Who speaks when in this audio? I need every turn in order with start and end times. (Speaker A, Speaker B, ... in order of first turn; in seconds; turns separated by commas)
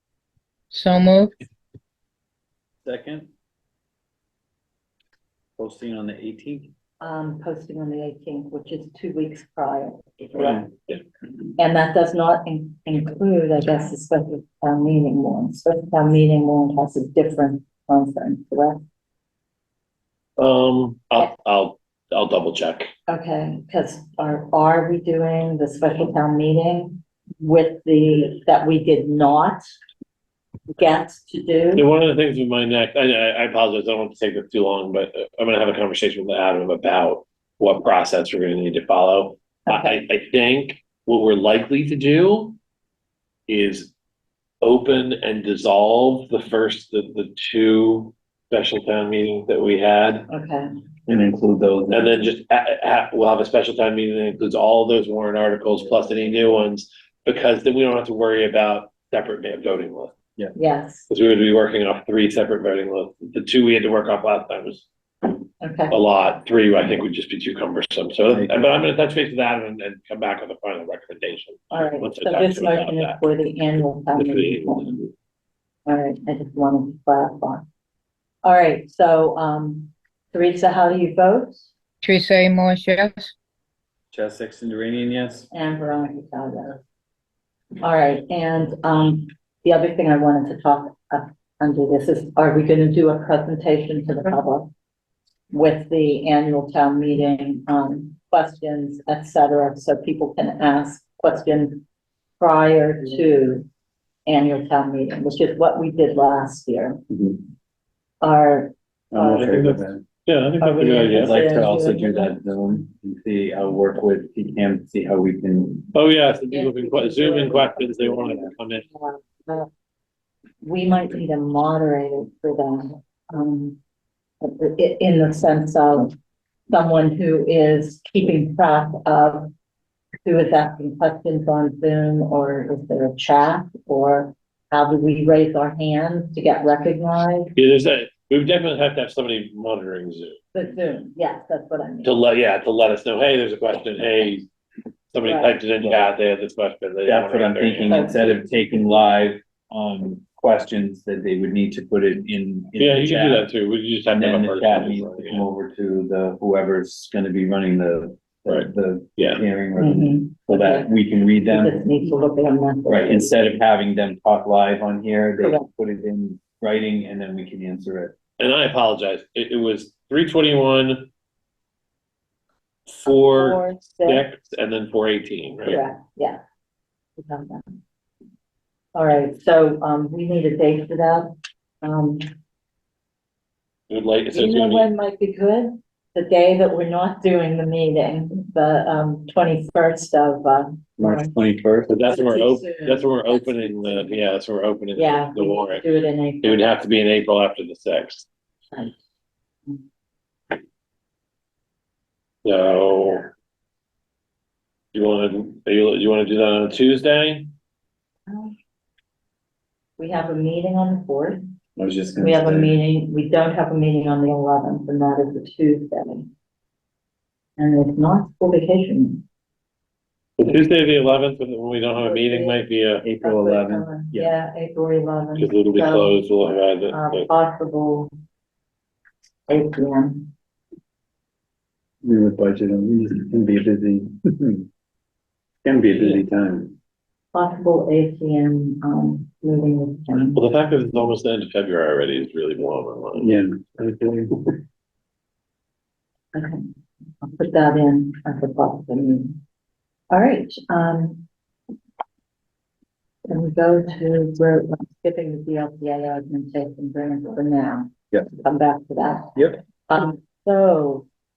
Speaker A: 0.7-1.4, Speaker B: 2.8-3.3, Speaker B: 5.6-6.7, Speaker C: 7.0-10.7, Speaker C: 11.6-18.8, Speaker D: 20.4-22.9, Speaker C: 23.1-29.6, Speaker C: 30.7-31.9, Speaker D: 31.8-42.6, Speaker C: 39.7-40.0, Speaker D: 43.5-43.9, Speaker D: 44.6-50.3, Speaker C: 50.3-50.7, Speaker B: 51.1-52.2, Speaker D: 51.9-60.1, Speaker C: 60.5-61.1, Speaker D: 61.1-64.9, Speaker C: 65.6-66.0, Speaker D: 65.9-73.2, Speaker C: 71.7-75.0, Speaker D: 74.1-75.1, Speaker C: 75.9-77.7, Speaker C: 78.4-81.7, Speaker A: 82.0-83.3, Speaker B: 84.1-85.5, Speaker C: 85.5-86.8, Speaker C: 87.8-94.7, Speaker C: 95.5-101.8, Speaker C: 102.4-103.7, Speaker C: 104.3-107.0, Speaker B: 107.1-107.4, Speaker C: 108.2-109.6, Speaker B: 109.1-110.0, Speaker D: 109.3-111.4, Speaker C: 110.6-112.4, Speaker B: 111.1-115.9, Speaker D: 115.9-118.9, Speaker C: 116.5-119.7, Speaker C: 120.6-123.8, Speaker C: 124.4-126.1, Speaker C: 126.7-129.5, Speaker C: 130.2-137.5, Speaker D: 137.6-140.4, Speaker C: 140.5-142.1, Speaker D: 142.0-144.5, Speaker D: 145.1-148.4, Speaker C: 145.2-145.6, Speaker B: 147.1-153.5, Speaker C: 147.9-148.2, Speaker D: 152.8-155.5, Speaker B: 154.1-161.8, Speaker D: 158.5-159.4, Speaker C: 159.8-160.9, Speaker C: 161.5-163.3, Speaker B: 162.9-168.2, Speaker C: 165.4-165.7, Speaker D: 168.4-171.1, Speaker D: 172.9-175.8, Speaker C: 173.2-174.2, Speaker C: 175.7-176.4, Speaker C: 177.2-177.8, Speaker C: 178.9-182.2, Speaker D: 183.9-184.9, Speaker C: 184.3-191.4, Speaker B: 191.0-192.0, Speaker D: 191.9-195.8, Speaker C: 192.1-194.1, Speaker C: 194.9-196.6, Speaker D: 196.4-198.3, Speaker C: 198.7-199.0, Speaker D: 202.4-203.3, Speaker D: 204.9-207.5, Speaker C: 208.3-208.6, Speaker C: 210.0-211.4, Speaker B: 211.8-212.7, Speaker C: 212.2-216.3, Speaker C: 217.6-219.2, Speaker D: 220.4-223.1, Speaker C: 222.0-222.7, Speaker B: 223.0-224.3, Speaker C: 223.2-226.2, Speaker D: 225.4-227.3, Speaker C: 226.9-228.1, Speaker C: 229.5-230.3, Speaker B: 232.0-234.7, Speaker B: 235.6-236.7, Speaker C: 235.9-236.2, Speaker C: 237.3-240.4, Speaker D: 240.3-243.3, Speaker B: 243.2-244.4, Speaker C: 246.3-246.7, Speaker C: 247.2-249.4, Speaker C: 250.1-251.2, Speaker C: 253.3-261.1, Speaker B: 259.4-259.6